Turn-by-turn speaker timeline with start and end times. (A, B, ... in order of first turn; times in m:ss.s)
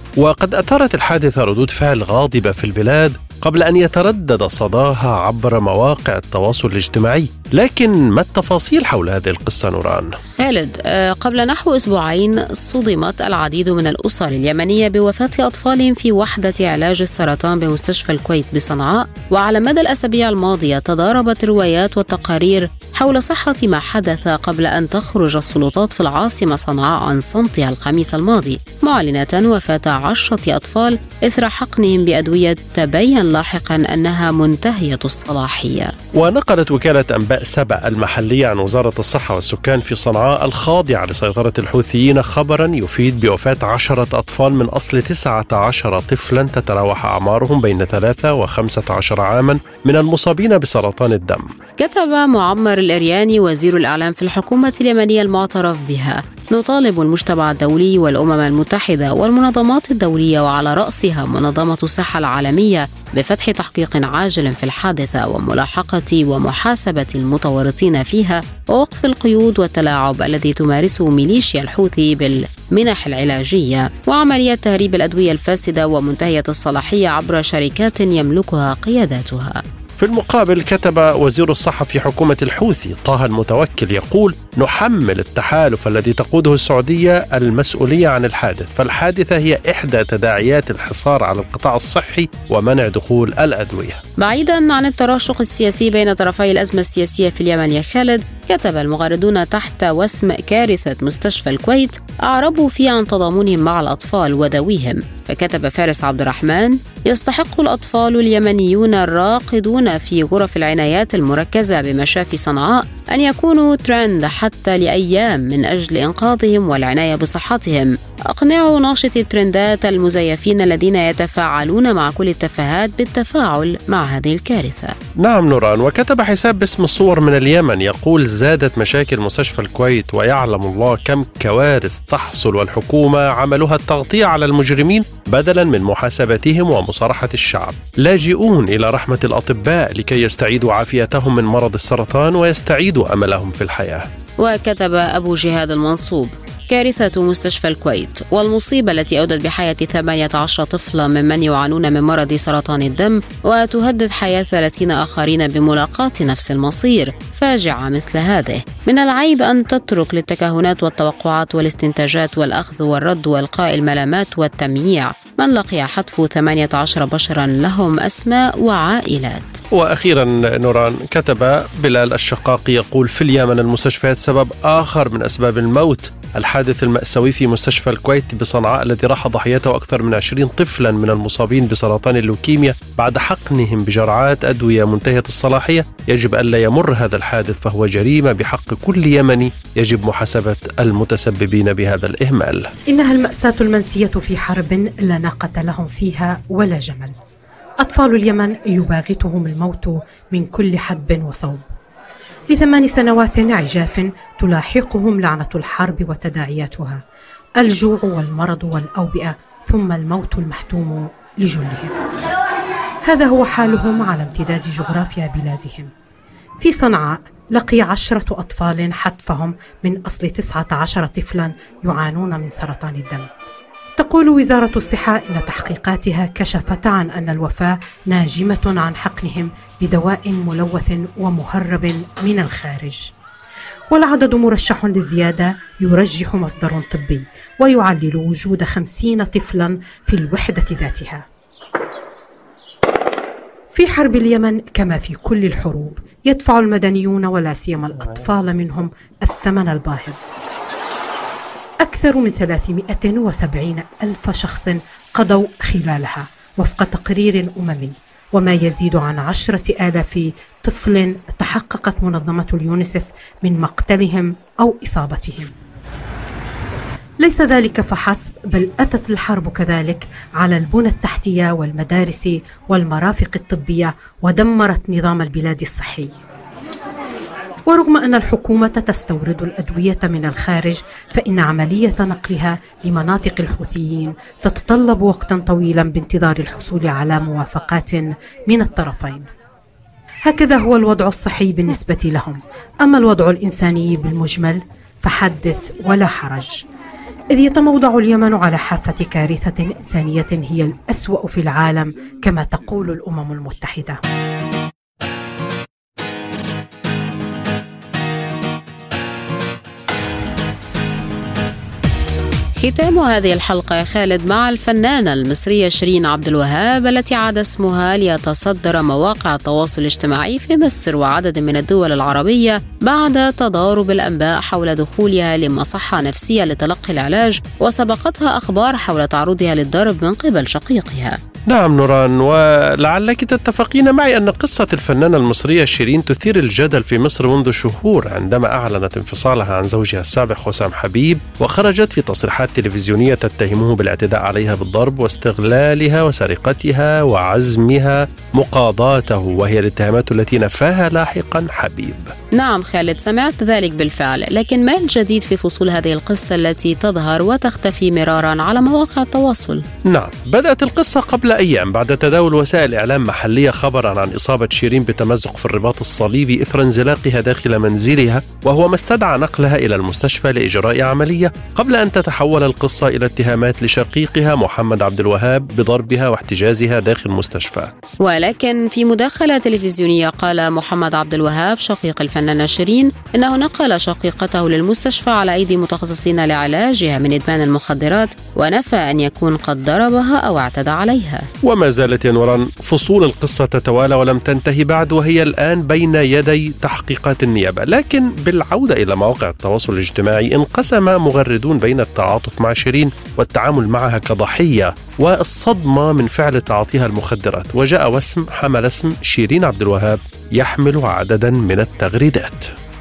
0:00.2-0:10.1 A
0:10.4-0:35.9 B
0:36.2-0:51.5 A
0:51.8-1:19.6 B
1:20.0-1:34.0 A
1:34.2-2:04.9 B
2:05.2-2:24.1 A
2:24.4-2:49.6 B
2:49.7-3:12.7 A
3:12.9-3:17.1 C
3:17.8-3:21.6 C
3:22.5-3:27.0 C
3:27.6-3:32.0 C
3:33.0-3:35.9 C
3:36.6-3:43.3 C
3:44.0-3:53.1 C
3:53.9-4:01.2 C
4:03.7-4:10.2 C
4:11.8-4:25.5 C
4:27.2-4:36.2 C
4:37.7-4:49.3 C
4:50.3-4:56.6 C
4:57.3-5:04.0 C
5:12.6-5:31.2 B
5:31.5-5:52.1 A
5:52.4-5:59.6 B
5:59.9-6:17.7 A
6:18.0-6:31.3 B
6:31.4-6:52.5 A